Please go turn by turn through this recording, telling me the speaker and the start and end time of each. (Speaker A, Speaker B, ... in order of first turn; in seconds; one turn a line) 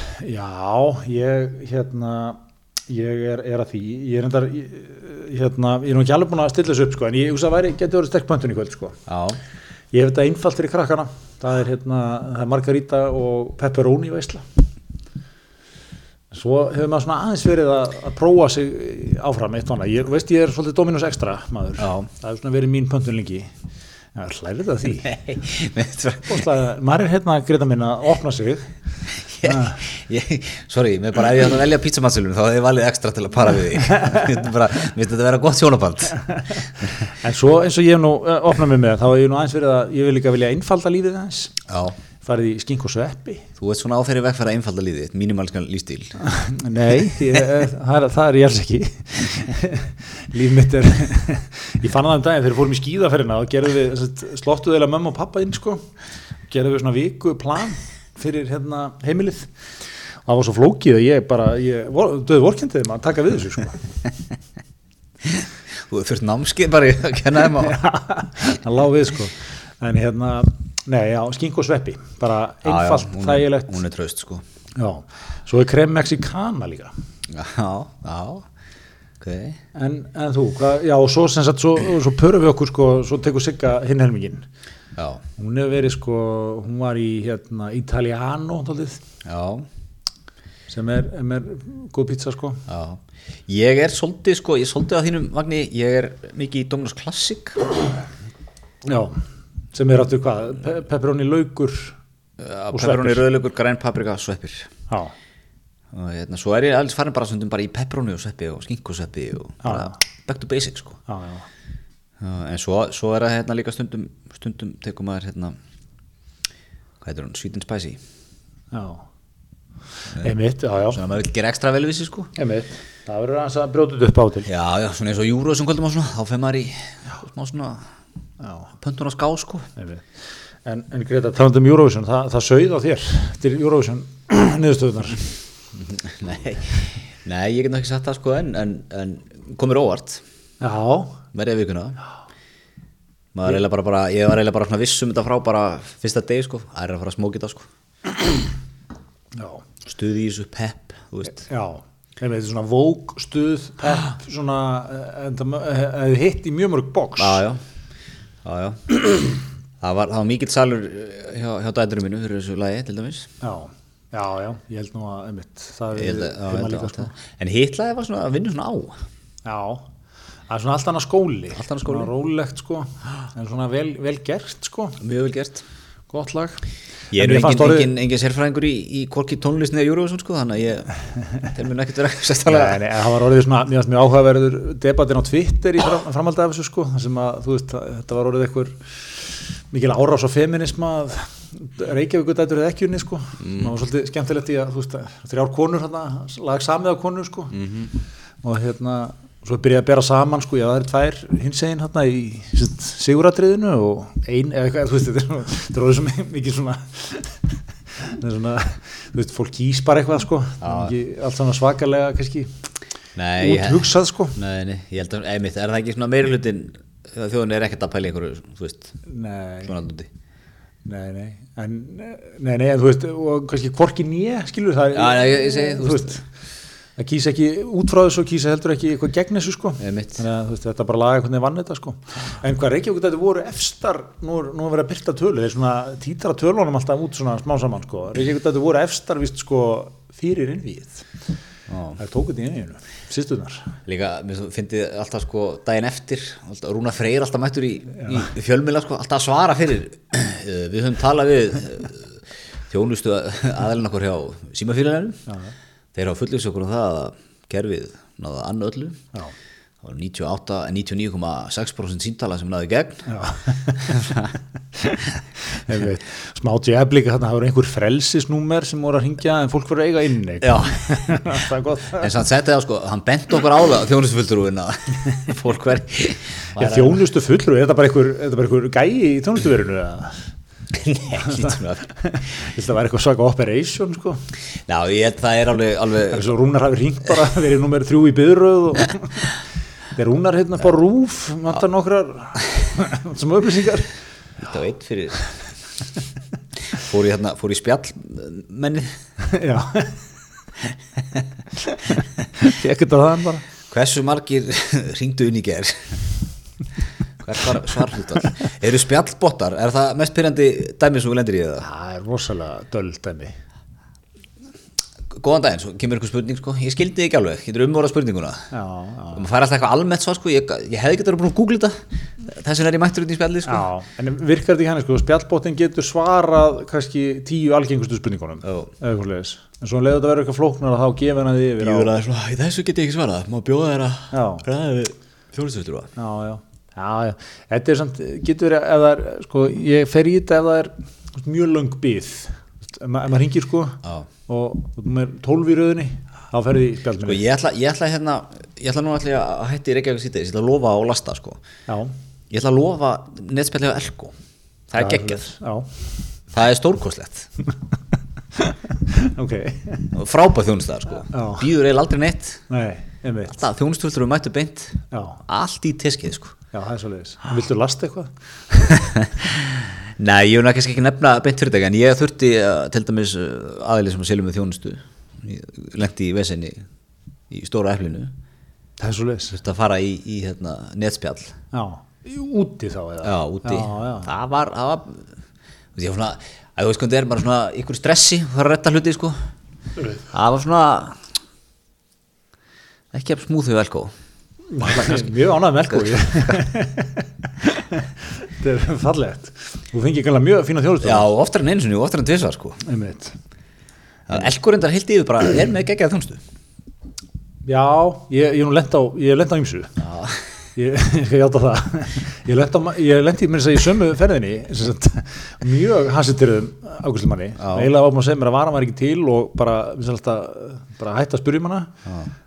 Speaker A: 0.2-9.0
Speaker B: 9.1-9.4
Speaker A: 9.9-14.4
Speaker A: 16.3-23.5
Speaker B: 21.8-22.1
Speaker A: 24.1-25.2
Speaker B: 25.0-26.4
Speaker A: 26.3-28.7
Speaker B: 29.1-36.8
Speaker A: 29.4-29.8
Speaker A: 37.0-41.6
Speaker B: 41.7-42.0
Speaker A: 42.2-43.5
Speaker B: 43.6-46.2
Speaker A: 46.2-55.9
Speaker A: 56.5-59.5
Speaker A: 60.3-63.8
Speaker B: 65.2-67.8
Speaker A: 67.6-73.8
Speaker B: 72.7-74.4
Speaker A: 74.8-76.9
Speaker B: 77.3-78.5
Speaker B: 79.2-79.6
Speaker A: 79.8-84.5
Speaker B: 85.0-85.2
Speaker A: 85.4-89.0
Speaker B: 89.2-89.7
Speaker A: 90.7-92.6
Speaker B: 92.7-97.7
Speaker A: 98.8-99.2
Speaker A: 99.7-102.0
Speaker B: 102.4-104.7
Speaker A: 102.7-103.2
Speaker B: 105.9-111.0
Speaker A: 109.6-110.0
Speaker A: 111.1-111.5
Speaker B: 112.2-115.6
Speaker B: 117.0-118.0
Speaker A: 118.7-119.0
Speaker A: 120.2-121.0
Speaker B: 120.9-122.3
Speaker A: 122.4-124.5
Speaker B: 124.5-127.8
Speaker A: 128.4-128.7
Speaker B: 128.8-129.7
Speaker A: 129.8-130.1
Speaker A: 130.7-135.3
Speaker B: 135.8-140.2
Speaker A: 140.6-141.2
Speaker B: 141.3-142.0
Speaker B: 143.3-147.7
Speaker A: 149.3-149.6
Speaker B: 149.8-151.5
Speaker A: 151.4-157.4
Speaker B: 157.2-157.6
Speaker B: 158.4-163.3
Speaker A: 163.4-167.2
Speaker B: 165.9-168.9
Speaker A: 169.4-169.9
Speaker A: 170.5-175.0
Speaker B: 171.6-172.1
Speaker B: 175.0-175.6
Speaker A: 176.1-176.6
Speaker B: 177.1-182.8
Speaker A: 177.2-177.9
Speaker A: 182.5-197.6
Speaker B: 193.4-193.7
Speaker B: 197.5-197.9
Speaker A: 198.4-207.4
Speaker A: 208.0-212.5
Speaker B: 210.6-210.9
Speaker B: 213.2-218.9
Speaker A: 213.4-214.4
Speaker A: 219.1-219.8
Speaker B: 219.7-220.1
Speaker A: 220.8-226.2
Speaker B: 224.9-226.2
Speaker A: 227.0-241.1
Speaker B: 229.8-230.2
Speaker B: 241.7-242.0
Speaker A: 242.0-243.8
Speaker B: 243.9-255.2
Speaker A: 255.3-255.5
Speaker B: 255.9-259.0
Speaker B: 259.8-263.1
Speaker A: 263.1-264.2
Speaker B: 263.9-264.3
Speaker A: 264.8-272.1
Speaker B: 270.4-271.1
Speaker B: 272.0-277.0
Speaker A: 276.6-280.2
Speaker B: 280.7-281.9
Speaker A: 281.2-284.2
Speaker B: 284.7-286.3
Speaker A: 286.1-289.3
Speaker A: 289.9-293.9
Speaker B: 294.4-295.2
Speaker B: 296.7-299.0
Speaker A: 299.2-300.0
Speaker A: 301.6-303.4
Speaker B: 303.7-306.0
Speaker B: 307.2-311.7
Speaker A: 311.6-313.3
Speaker B: 315.1-318.5
Speaker A: 318.5-319.3
Speaker B: 319.1-323.7
Speaker A: 323.5-331.9
Speaker B: 328.4-328.7
Speaker B: 331.6-335.9
Speaker A: 334.1-334.5
Speaker A: 336.0-347.2
Speaker B: 347.0-351.4
Speaker A: 351.7-351.9
Speaker B: 352.3-354.1
Speaker B: 354.7-355.3
Speaker A: 354.8-355.7
Speaker B: 356.3-357.3
Speaker A: 358.4-359.9
Speaker B: 359.9-362.4
Speaker A: 361.1-361.5
Speaker A: 362.5-363.4
Speaker B: 363.3-366.4
Speaker A: 364.9-365.2
Speaker A: 366.5-368.9
Speaker B: 368.7-376.6
Speaker B: 377.3-378.1
Speaker A: 378.8-379.4
Speaker B: 379.4-381.4
Speaker A: 381.5-384.1
Speaker B: 383.0-385.1
Speaker B: 385.8-389.2
Speaker B: 390.1-391.0
Speaker B: 392.9-393.9
Speaker A: 394.5-401.1
Speaker B: 394.6-396.4
Speaker B: 400.8-402.6
Speaker A: 402.6-403.2
Speaker B: 404.1-406.2
Speaker A: 407.4-409.7
Speaker B: 409.8-410.2
Speaker A: 410.6-421.7
Speaker B: 417.4-417.7